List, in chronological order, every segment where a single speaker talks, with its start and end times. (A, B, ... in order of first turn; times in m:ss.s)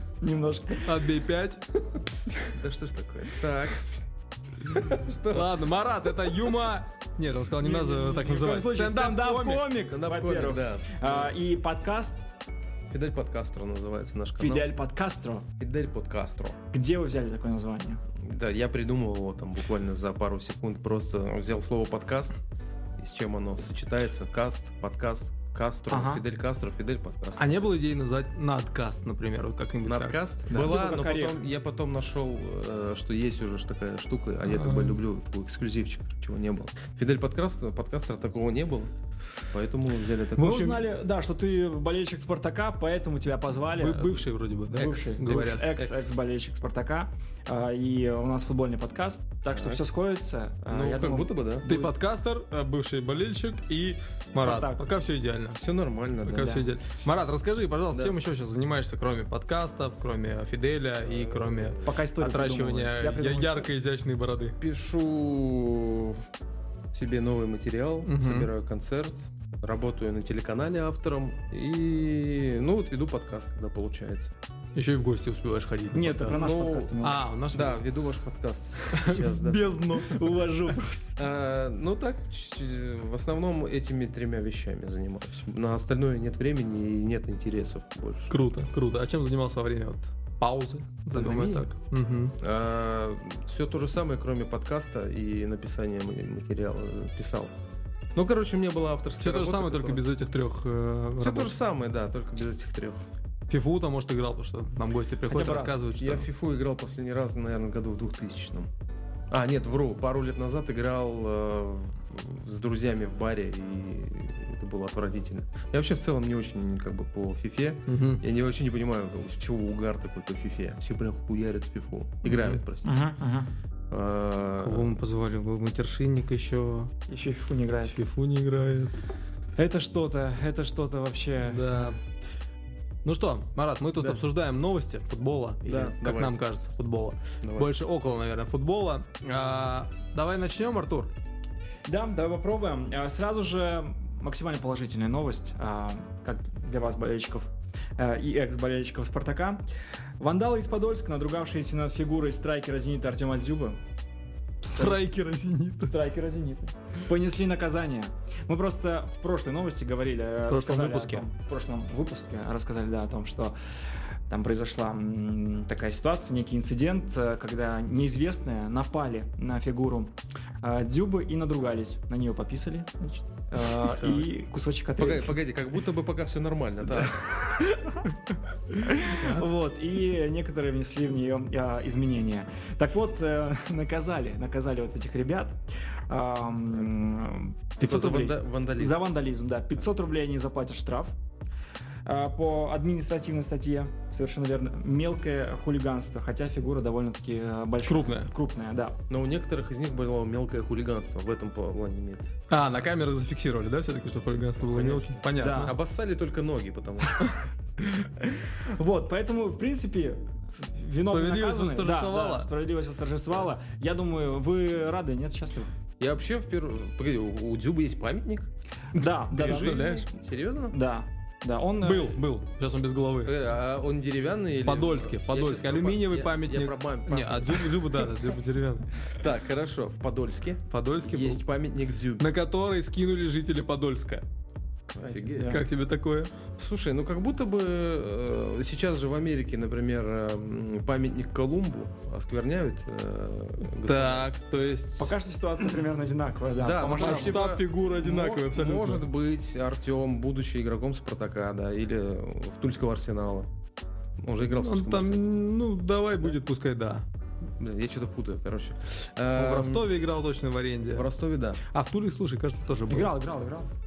0:00.2-0:01.0 A
0:00.9-0:01.6 B
0:02.5-0:03.9 C
0:04.6-0:05.6 C
0:05.3-0:09.7 B
0:07.6-0:12.2 A
0:09.9-0:11.3 C
0:12.9-0:14.7 C
0:14.4-0:15.5 A
0:15.6-0:16.6 C
0:16.7-0:18.0 A
0:18.2-0:22.4 C
0:23.0-0:27.6 C
0:25.9-0:26.2 A
0:27.4-0:30.2 B
0:29.9-0:38.9 C
0:30.5-0:31.4 A
0:34.5-0:35.0 B
0:39.5-0:40.7 C
0:40.4-0:51.3 A
0:40.4-0:40.8 B
0:43.8-0:45.7 B
0:45.8-0:46.1 C
0:49.5-0:49.8 C
0:50.7-0:52.0 C
0:51.6-0:55.6 B
0:54.4-0:54.8 A
0:55.5-0:56.6 C
0:56.2-1:04.6 B
1:01.2-1:01.8 C
1:01.8-1:03.7 A
1:04.6-1:06.2 C
1:06.9-1:14.3 C
1:08.0-1:08.5 B
1:14.8-1:17.8 B
1:15.9-1:17.2 A
1:16.3-1:16.9 C
1:17.5-1:19.9 C
1:18.9-1:20.7 B
1:20.0-1:21.1 A
1:21.2-1:28.3 C
1:28.3-1:32.3 B
1:31.1-1:31.7 C
1:32.4-1:37.5 C
1:38.1-1:40.0 C
1:39.2-1:41.6 B
1:41.2-1:43.0 C
1:43.5-1:46.3 B
1:45.3-1:45.8 A
1:45.9-1:48.7 C
1:49.3-2:03.0 C
1:57.9-1:58.2 B
2:02.2-2:02.6 B
2:02.8-2:03.5 A
2:03.9-2:04.9 C
2:04.6-2:06.9 B
2:07.1-2:08.0 A
2:07.9-2:09.0 B
2:09.6-2:11.9 A
2:11.4-2:12.0 B
2:13.0-2:21.1 B
2:15.6-2:16.4 C
2:17.4-2:17.7 C
2:21.9-2:29.6 A
2:30.2-2:33.8 A
2:34.6-2:35.9 B
2:34.7-2:35.0 A
2:35.8-2:43.5 A
2:40.5-2:41.2 B
2:44.3-2:55.4 A
2:53.8-2:54.3 C
2:55.0-2:57.3 C
2:57.7-2:58.1 A
2:58.7-3:11.2 A
3:07.8-3:09.0 C
3:12.1-3:19.0 A
3:17.8-3:18.3 B
3:19.1-3:22.3 C
3:22.5-3:25.8 B
3:24.6-3:27.2 C
3:25.4-3:25.7 A
3:28.2-3:35.7 A
3:31.1-3:32.5 B
3:36.0-3:38.5 C
3:38.9-3:39.9 A
3:39.0-3:40.0 B
3:39.3-3:40.8 C
3:40.7-3:42.2 A
3:41.8-3:43.4 B
3:43.2-3:48.0 C
3:44.6-3:48.9 B
3:49.1-3:52.2 C
3:50.7-3:51.4 B
3:52.2-3:54.2 B
3:54.9-3:55.6 C
3:55.2-3:55.6 A
3:55.4-3:56.3 B
3:56.6-4:04.2 C
4:03.8-4:05.1 B
4:05.0-4:07.4 A
4:06.6-4:13.5 C
4:06.9-4:09.0 B
4:14.2-4:15.2 C
4:14.6-4:17.0 B
4:17.6-4:19.9 C
4:19.4-4:21.1 B
4:20.9-4:21.6 C
4:21.6-4:23.1 B
4:22.9-4:23.7 A